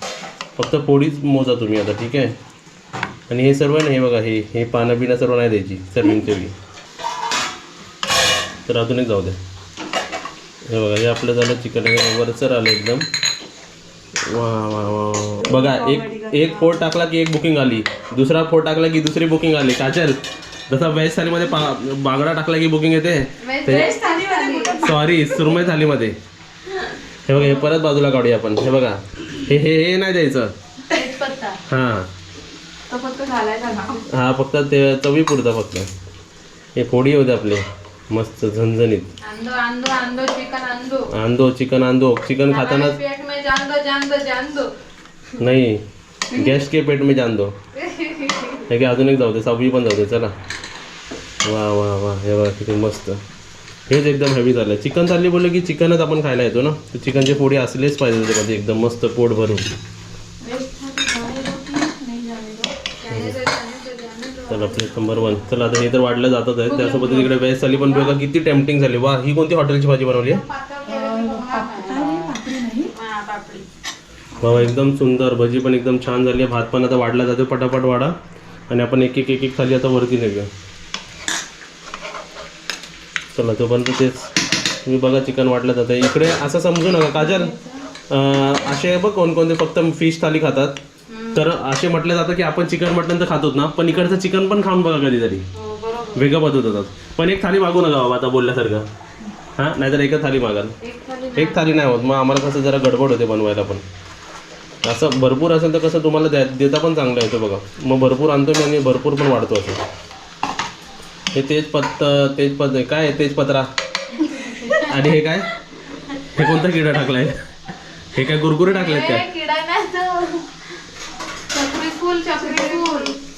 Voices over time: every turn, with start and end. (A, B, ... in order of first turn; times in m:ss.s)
0:00.6-0:02.4 A
0:03.3-0:06.5 A
0:08.7-0:09.4 A
0:10.6-0:13.0 A
0:14.2-0:24.0 A
0:15.6-0:16.4 B
0:23.4-0:24.8 C
0:23.7-0:24.9 B
0:24.8-0:26.2 A
0:27.2-0:30.5 A
0:30.9-0:31.6 C
0:31.7-0:32.1 A
0:32.9-0:34.0 B
0:34.1-0:35.9 A
0:36.8-0:39.1 A
0:39.2-0:41.1 C
0:41.1-0:43.0 A
0:42.5-0:44.7 C
0:45.4-0:47.5 A
0:47.8-0:48.6 C
0:48.7-0:50.3 A
0:51.4-0:53.2 A
0:53.9-0:59.7 A
1:00.4-1:02.7 B
1:03.0-1:05.6 C
1:03.1-1:03.4 A
1:04.5-1:10.4 A
1:06.6-1:08.1 C
1:10.3-1:12.4 C
1:10.8-1:12.9 B
1:12.9-1:13.6 C
1:14.4-1:18.1 A
1:18.7-1:20.5 A
1:23.3-1:24.3 A
1:24.8-1:27.5 A
1:27.1-1:27.8 C
1:28.1-1:30.8 A
1:31.1-1:31.4 C
1:31.3-1:35.4 A
1:35.6-1:36.3 C
1:36.1-1:38.9 A
1:39.6-1:40.7 A
1:40.8-1:41.7 C
1:41.3-1:43.8 A
1:44.8-1:49.8 A
1:51.3-1:53.7 A
1:54.5-1:54.9 C
1:54.8-1:55.5 A
1:56.3-1:57.4 A
1:58.1-1:59.3 A
1:58.7-2:00.5 C
2:01.5-2:03.2 C
2:02.4-2:02.9 B